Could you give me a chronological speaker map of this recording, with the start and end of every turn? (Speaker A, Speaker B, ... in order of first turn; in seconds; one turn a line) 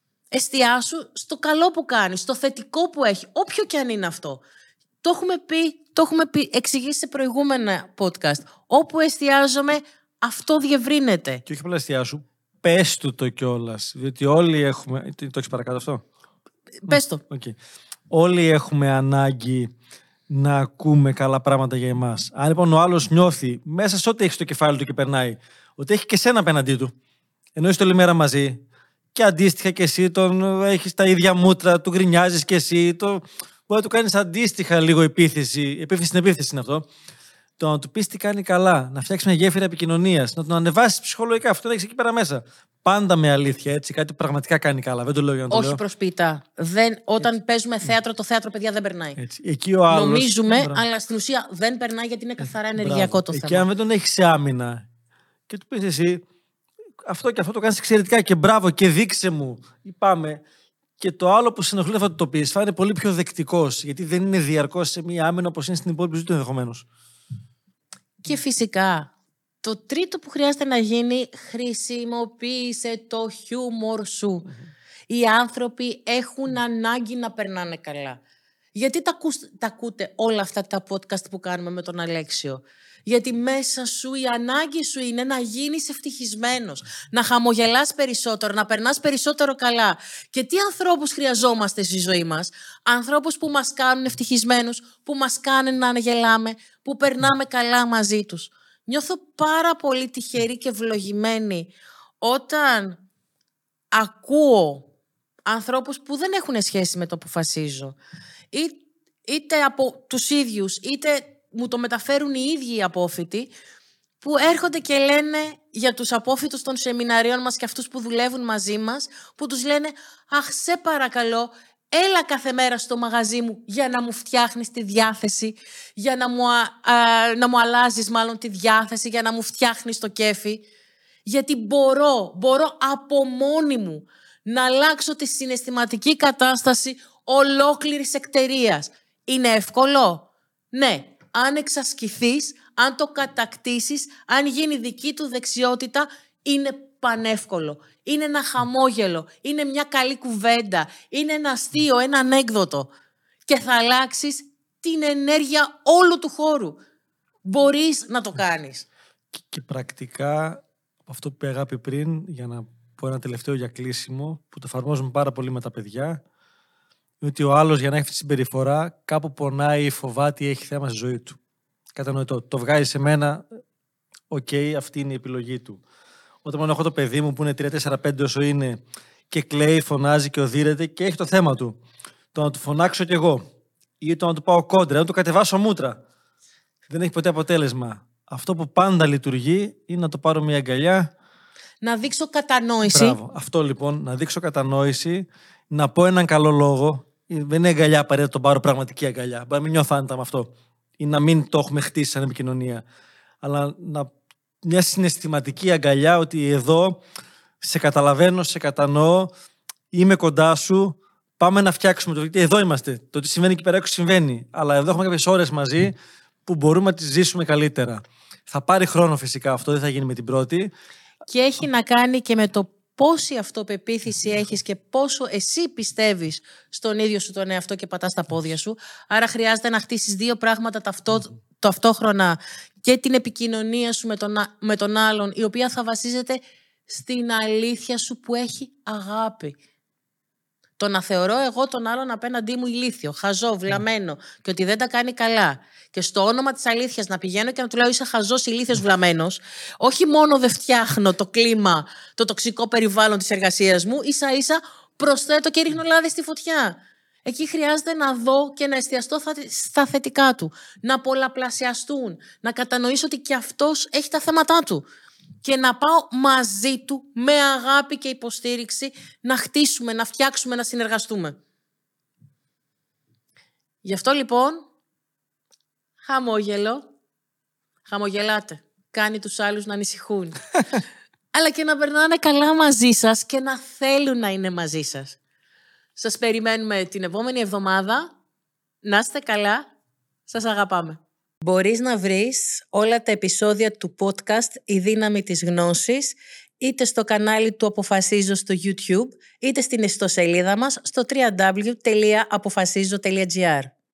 Speaker A: 0.3-4.4
Speaker A: 5.0-11.4
Speaker B: 11.5-16.0
Speaker A: 16.8-17.2
Speaker B: 16.9-17.6
Speaker B: 18.1-19.7
Speaker B: 20.3-26.9
Speaker B: 27.6-28.6
Speaker B: 29.1-36.9
Speaker B: 37.6-45.8
Speaker A: 45.5-49.2
Speaker B: 49.2-50.8
Speaker A: 49.9-53.7
Speaker B: 52.8-54.9
Speaker B: 55.5-56.2
Speaker B: 57.0-60.4
Speaker B: 61.0-66.9
Speaker A: 68.2-69.1
Speaker A: 69.6-74.5
Speaker A: 75.1-78.2
Speaker A: 78.8-103.0
Speaker A: 103.9-104.9
Speaker A: 105.5-108.0
Speaker A: 108.5-113.5
Speaker A: 114.2-130.7
Speaker A: 131.3-152.9
Speaker A: 153.5-156.8
Speaker A: 157.4-158.9
Speaker B: 159.3-166.2
Speaker B: 167.2-171.4
Speaker B: 172.0-173.4
Speaker B: 174.3-175.8
Speaker B: 176.4-181.8
Speaker B: 182.3-183.4
Speaker B: 184.0-186.0
Speaker B: 186.9-191.1
Speaker A: 191.8-193.2
Speaker B: 192.8-202.8
Speaker B: 203.4-204.1
Speaker B: 204.6-207.0
Speaker B: 207.6-209.3
Speaker B: 209.9-215.9
Speaker B: 216.5-220.7
Speaker A: 221.3-239.6
Speaker A: 240.8-264.9
Speaker A: 265.4-271.4
Speaker A: 273.8-274.6
Speaker A: 276.0-276.8
Speaker A: 277.9-280.5
Speaker A: 281.3-285.2
Speaker A: 286.0-288.1
Speaker A: 288.8-289.6
Speaker A: 290.3-303.7